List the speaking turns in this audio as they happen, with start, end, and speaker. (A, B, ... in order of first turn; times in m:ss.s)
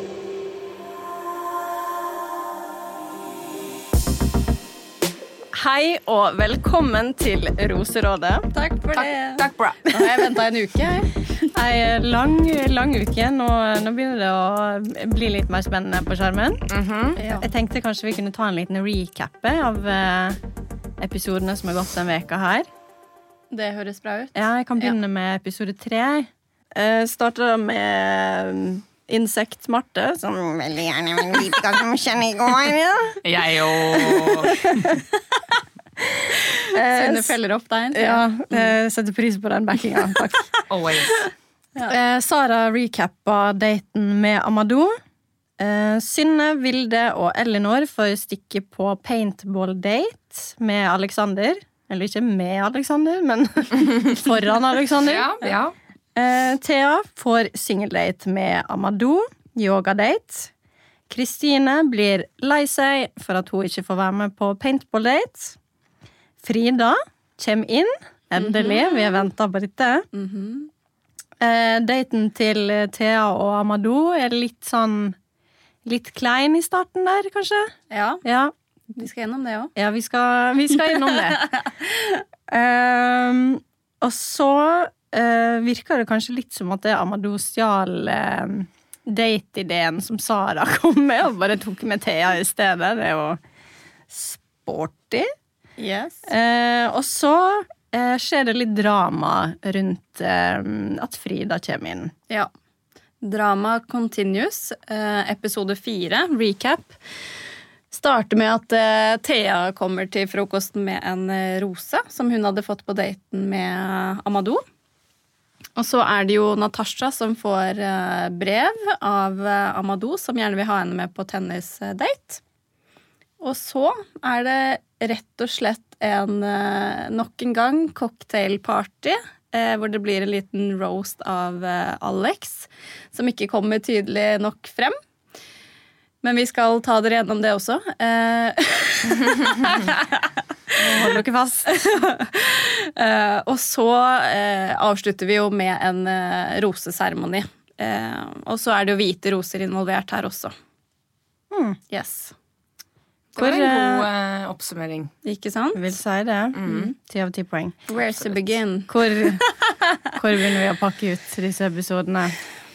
0:05.5-0:08.5 A
0:08.5-0:11.1 B
0:08.9-0:10.2 C
0:11.5-0:16.6 A
0:16.7-0:17.2 C
0:17.2-0:20.4 A
0:17.2-0:17.4 B
0:21.0-0:22.7 A
0:23.5-0:25.0 B
0:24.3-0:33.2 A
0:33.2-0:34.9 C
0:34.1-0:34.9 A
0:36.6-0:38.6 B
0:36.7-0:37.3 A
0:37.9-0:40.5 A
0:40.7-0:41.2 C
0:41.8-0:45.0 A
0:45.6-0:55.3 A
0:55.0-0:55.7 C
0:56.1-1:00.5 A
1:01.1-1:05.6 A
1:06.4-1:10.0 A
1:08.3-1:09.2 B
1:10.1-1:10.7 B
1:11.4-1:15.2 A
1:15.8-1:18.5 A
1:17.9-1:18.2 B
1:19.0-1:19.7 B
1:19.8-1:21.5 A
1:20.9-1:22.2 B
1:22.5-1:33.4 A
1:34.1-1:35.3 A
1:35.8-1:36.3 B
1:36.3-1:42.1 A
1:43.2-1:47.0 B
1:47.9-1:54.6 B
1:55.8-2:02.4 B
2:03.4-2:15.0 B
2:16.2-2:30.5 B
2:20.8-2:21.7 A
2:31.5-2:31.8 A
2:31.9-2:32.3 B
2:33.3-2:35.1 C
2:33.4-2:34.1 A
2:35.2-2:35.8 B
2:35.7-2:37.8 A
2:36.5-2:36.9 C
2:37.9-2:39.5 B
2:38.9-2:39.4 A
2:40.2-2:42.4 A